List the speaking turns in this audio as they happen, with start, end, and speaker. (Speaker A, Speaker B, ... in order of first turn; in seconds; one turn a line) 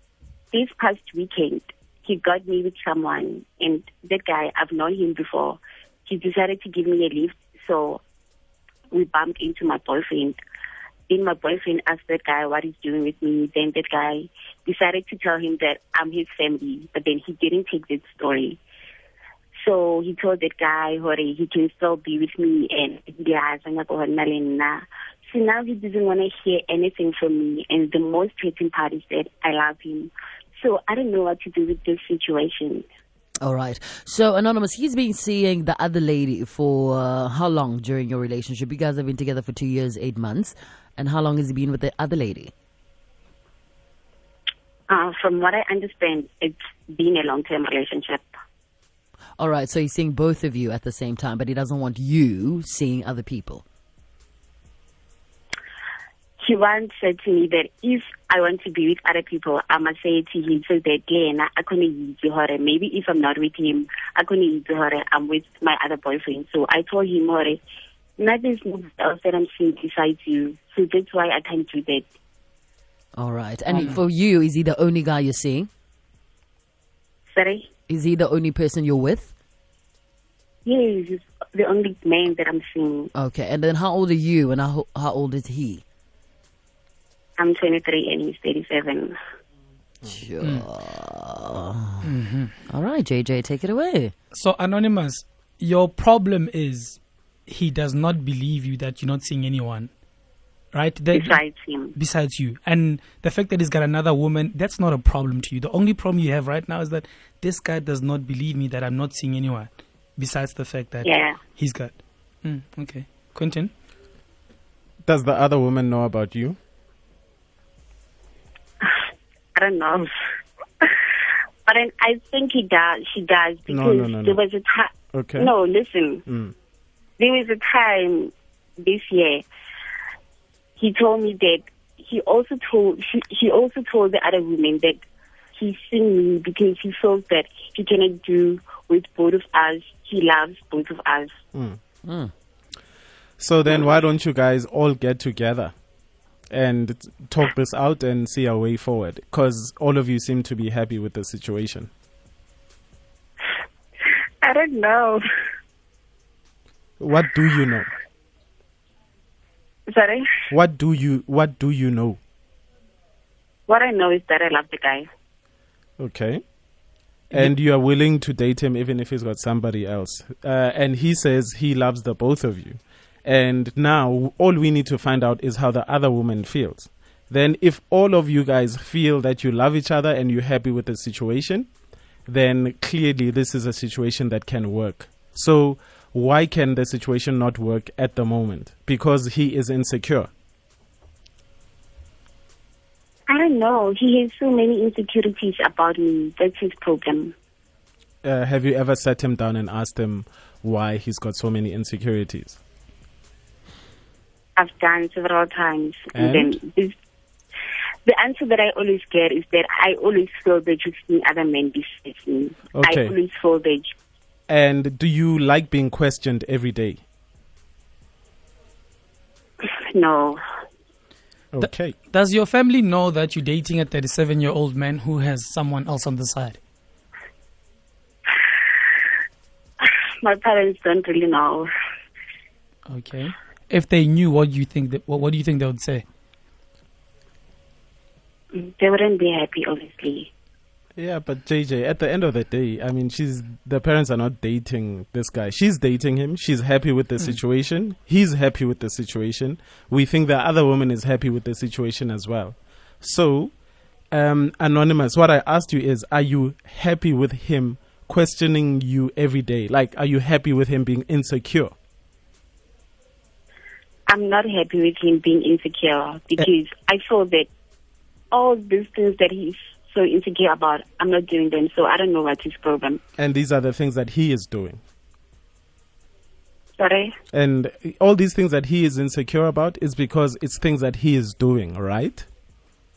Speaker A: 0.5-8.0
Speaker A: 8.9-10.3
Speaker A: 11.1-18.6
Speaker A: 19.5-32.8
Speaker B: 33.4-42.5
Speaker A: 44.9-48.2
Speaker B: 49.4-53.6
Speaker A: 56.4-67.6
Speaker A: 68.2-72.0
Speaker B: 73.2-75.7
Speaker C: 73.7-74.0
Speaker A: 77.3-77.7
Speaker B: 77.9-79.3
Speaker A: 80.6-83.1
Speaker B: 83.1-85.8
Speaker A: 87.4-89.1
Speaker B: 90.0-92.0
Speaker C: 90.4-90.7
Speaker C: 92.0-92.5
Speaker B: 92.7-94.1
Speaker C: 94.3-99.9
Speaker C: 100.7-101.4
Speaker A: 101.1-101.9
Speaker C: 102.0-113.7
Speaker A: 111.0-111.4
Speaker D: 115.0-116.6
Speaker A: 119.5-120.1
Speaker A: 120.8-121.0
Speaker A: 121.7-126.2
Speaker D: 123.7-124.4
Speaker D: 125.1-125.5
Speaker D: 126.2-126.5
Speaker A: 127.2-129.4
Speaker A: 130.8-135.0
Speaker A: 135.5-141.3
Speaker D: 141.5-141.8
Speaker B: 142.0-142.3
Speaker D: 143.4-145.7
Speaker D: 146.5-151.9
Speaker A: 154.4-155.2
Speaker D: 157.0-157.9
Speaker A: 159.9-160.3
Speaker D: 160.5-162.2
Speaker A: 163.7-165.1
Speaker D: 166.0-166.4
Speaker D: 167.3-181.7
Speaker D: 182.3-190.3
Speaker A: 193.3-197.3
Speaker D: 198.2-202.6
Speaker A: 204.6-206.9
Speaker D: 206.1-206.5
Speaker A: 208.1-213.9
Speaker D: 212.7-213.1
Speaker D: 214.5-217.0
Speaker A: 219.6-220.4
Speaker D: 221.5-221.9
Speaker C: 221.6-226.6
Speaker A: 229.8-231.7
Speaker C: 232.9-236.0
Speaker A: 238.5-240.3
Speaker D: 241.0-253.5
Speaker D: 254.1-261.7
Speaker A: 264.1-267.5
Speaker A: 268.3-273.0
Speaker D: 273.2-274.8
Speaker A: 276.8-277.1
Speaker D: 277.3-282.3